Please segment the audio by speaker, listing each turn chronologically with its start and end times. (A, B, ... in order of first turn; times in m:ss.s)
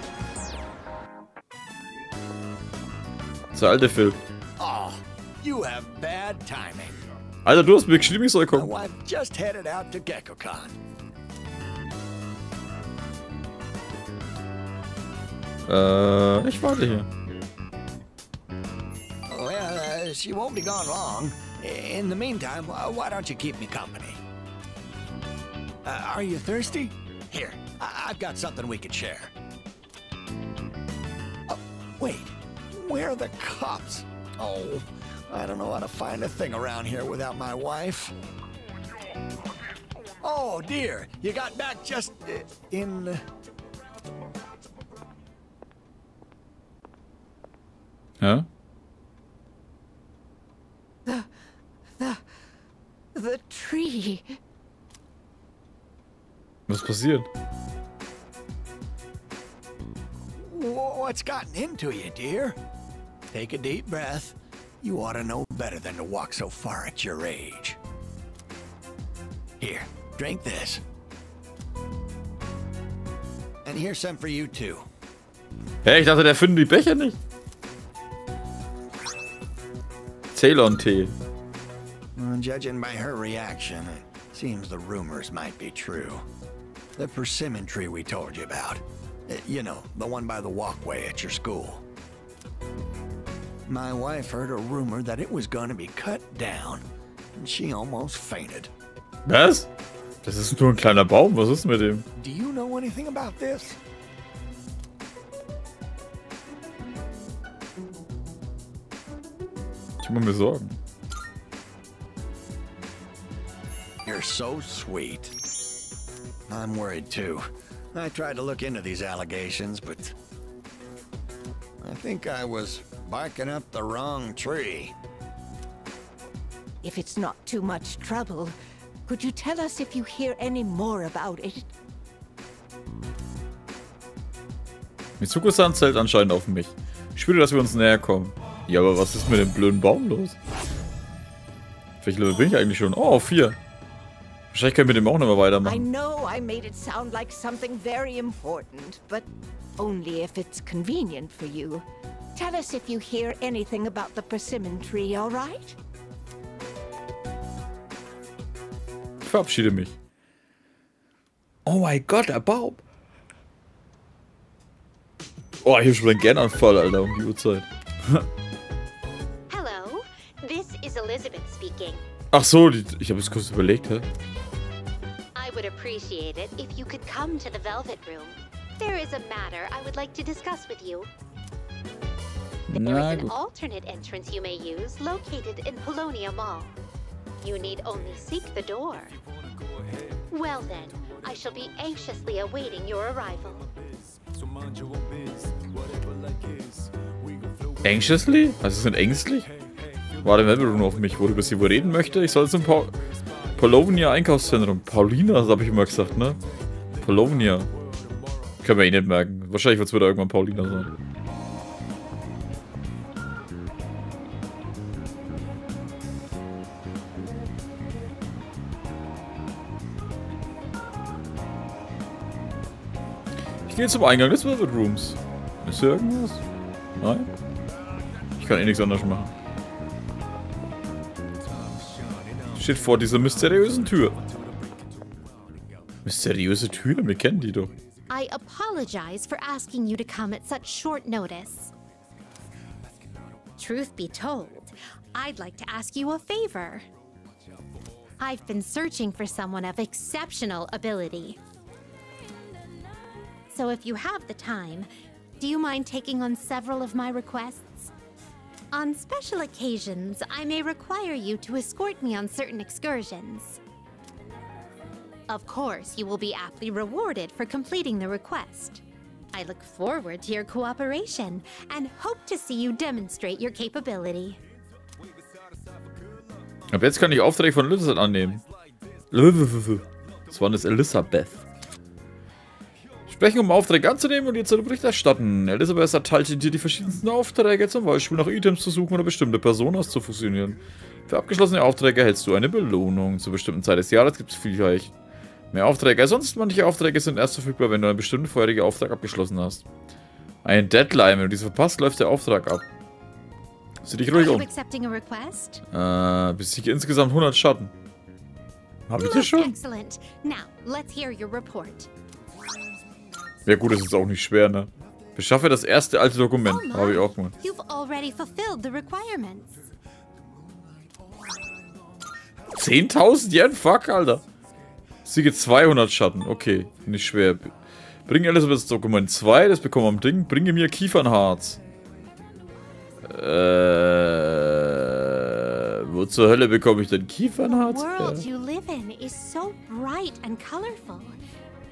0:03.5-0:04.2 A
0:04.6-0:07.0 B
0:07.4-0:08.7 A
0:08.5-0:10.8 B
0:15.6-0:17.1 A
0:19.3-0:24.2 B
0:25.8-0:29.3 B
0:31.5-0:38.1 B
0:40.2-0:43.2 B
0:48.2-0:48.4 A
0:51.0-0:51.3 C
0:52.0-0:52.2 C
0:53.1-0:54.3 C
0:56.7-0:57.3 A
1:00.4-1:02.6 B
1:03.3-1:07.8 B
1:09.6-1:10.8 B
1:13.6-1:14.9 B
1:15.8-1:17.2 A
1:20.3-1:21.1 A
1:22.2-1:26.2 B
1:27.0-1:31.8 B
1:33.6-1:36.8 B
1:37.4-1:38.7 B
1:39.2-1:39.7 A
1:40.2-1:42.1 A
1:42.2-1:43.8 B
1:50.0-1:50.8 A
1:54.0-1:55.3 B
1:56.5-2:00.1 B
2:01.8-2:04.9 B
2:06.8-2:08.5 C
2:09.0-2:11.7 C
2:15.2-2:20.4 A
2:22.0-2:23.6 A
2:24.5-2:25.8 A
2:25.6-2:29.2 C
2:29.8-2:35.8 C
2:39.2-2:39.9 A
2:41.6-2:42.8 A
2:45.6-2:48.2 A
2:49.5-2:52.0 D
2:52.3-2:54.0 A
2:55.3-3:01.1 D
3:02.7-3:03.3 A
3:02.7-3:06.8 D
3:07.4-3:09.2 D
3:10.3-3:13.7 D
3:17.8-3:19.5 A
3:20.2-3:26.4 A
3:27.0-3:27.7 A
3:28.6-3:30.9 A
3:43.7-3:46.4 A
3:47.0-3:47.3 A
3:48.4-3:49.3 A
3:52.5-3:54.2 A
3:56.0-3:57.7 A
3:58.1-4:01.7 D
4:03.6-4:06.9 D
4:08.2-4:11.4 D
4:13.5-4:17.9 D
4:18.7-4:23.6 D
4:25.3-4:28.8 D
4:29.3-4:34.4 D
4:36.7-4:38.4 A
4:39.1-4:41.4 A
4:43.1-4:54.9 A
4:55.5-4:59.6 A
5:00.4-5:02.6 A
5:03.8-5:04.4 A
5:04.1-5:05.6 D
5:05.7-5:07.7 A
5:08.9-5:09.5 A
5:09.0-5:11.9 D
5:13.4-5:17.3 A
5:16.4-5:19.6 D
5:22.5-5:24.2 A
5:25.0-5:27.5 A
5:28.1-5:31.6 A
5:33.0-5:38.2 A
5:37.4-5:41.2 D